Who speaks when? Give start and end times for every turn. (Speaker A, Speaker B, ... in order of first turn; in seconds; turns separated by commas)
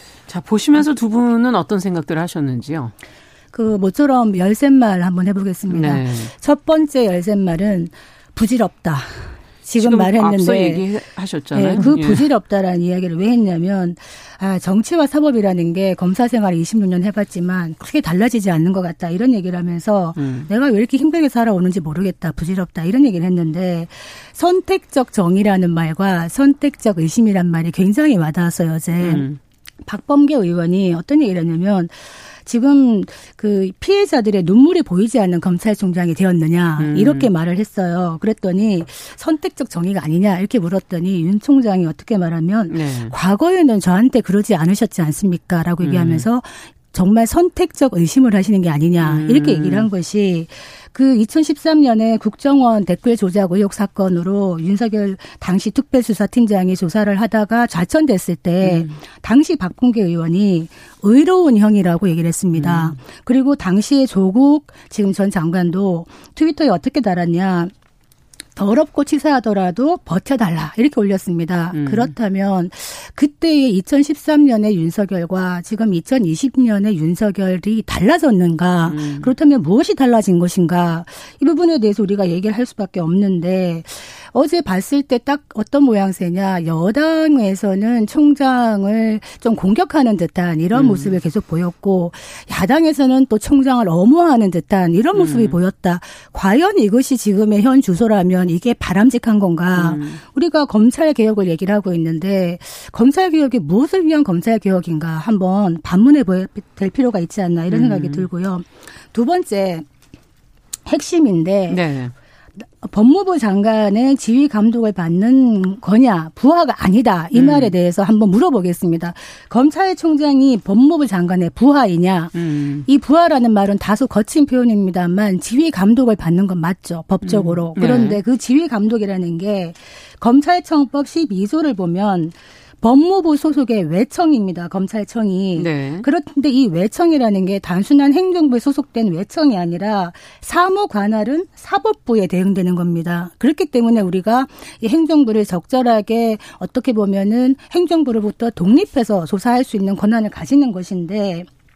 Speaker A: 0.3-2.9, Speaker B: 3.5-10.8, Speaker A: 5.7-6.3, Speaker A: 9.8-12.3, Speaker B: 11.5-29.2, Speaker A: 20.1-20.5, Speaker A: 29.0-29.4, Speaker B: 29.9-67.7, Speaker A: 36.8-37.3, Speaker A: 42.7-43.1, Speaker A: 45.8-46.2, Speaker A: 49.0-49.9, Speaker A: 58.6-59.0, Speaker A: 62.5-63.0, Speaker B: 68.5-109.8, Speaker A: 71.7-72.1, Speaker A: 78.9-79.3, Speaker A: 90.7-91.1, Speaker A: 95.1-95.6, Speaker A: 99.7-100.2, Speaker A: 107.7-108.3, Speaker B: 110.8-111.8, Speaker A: 111.7-112.1, Speaker B: 112.6-151.5, Speaker A: 117.3-117.7, Speaker A: 122.3-122.8, Speaker A: 127.2-128.2, Speaker A: 135.6-136.1